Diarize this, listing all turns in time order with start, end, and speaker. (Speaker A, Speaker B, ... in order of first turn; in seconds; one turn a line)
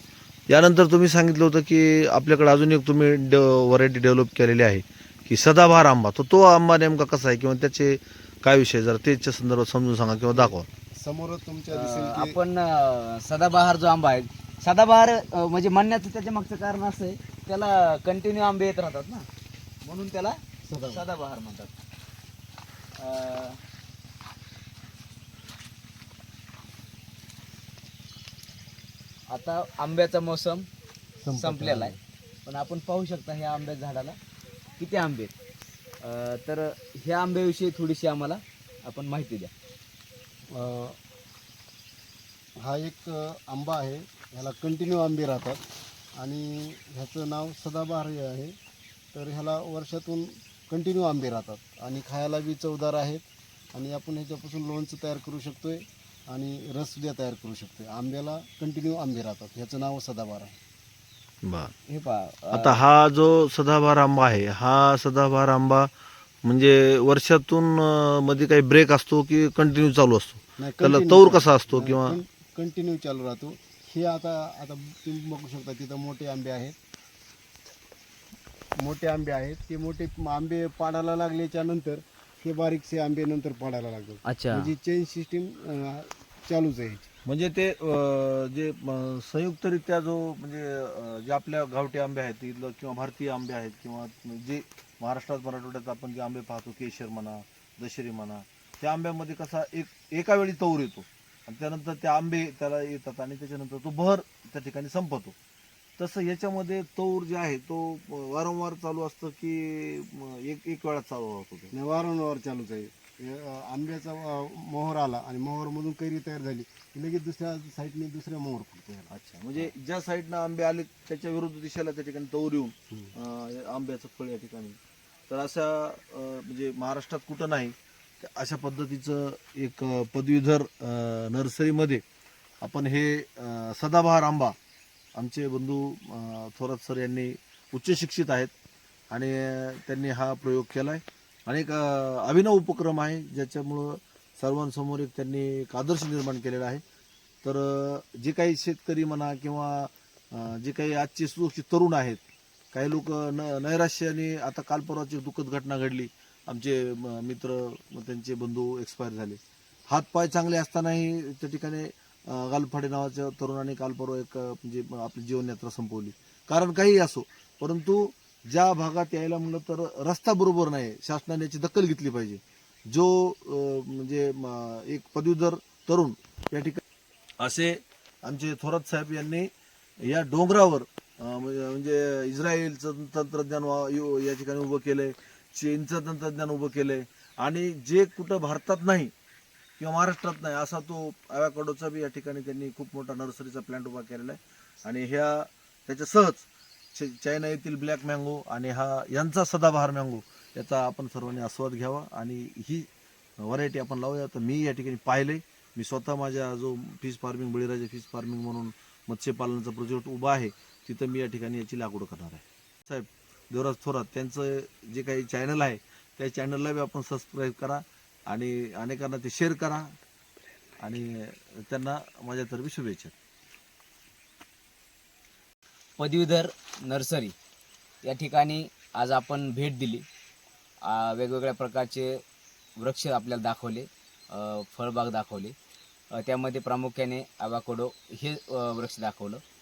Speaker A: 0.5-10.7
Speaker B: 10.3-12.4
Speaker C: 11.7-19.3
Speaker C: 19.8-21.8
Speaker B: 20.6-21.1
Speaker C: 22.9-23.6
Speaker C: 29.3-30.7
Speaker B: 31.2-32.0
Speaker C: 31.3-34.2
Speaker C: 34.8-35.3
Speaker C: 36.0-39.5
Speaker B: 40.5-41.0
Speaker B: 42.6-45.6
Speaker B: 46.2-48.5
Speaker B: 49.1-60.6
Speaker A: 61.4-61.7
Speaker C: 61.9-62.8
Speaker A: 62.5-65.9
Speaker A: 66.4-72.2
Speaker B: 70.6-76.8
Speaker B: 78.8-87.1
Speaker C: 84.2-84.7
Speaker A: 87.2-105.3
Speaker A: 106.0-111.7
Speaker B: 111.7-119.7
Speaker A: 119.1-132.0
Speaker A: 132.6-134.5
Speaker A: 135.2-138.5
Speaker A: 139.1-146.8
Speaker A: 147.4-152.2
Speaker A: 152.7-176.8
Speaker A: 177.4-179.5
Speaker A: 180.0-189.1
Speaker A: 189.8-202.9
Speaker A: 203.4-219.9
Speaker A: 220.8-223.1
Speaker C: 226.0-227.3
Speaker C: 228.0-230.0
Speaker C: 230.8-232.2
Speaker C: 232.8-235.5
Speaker C: 236.1-239.4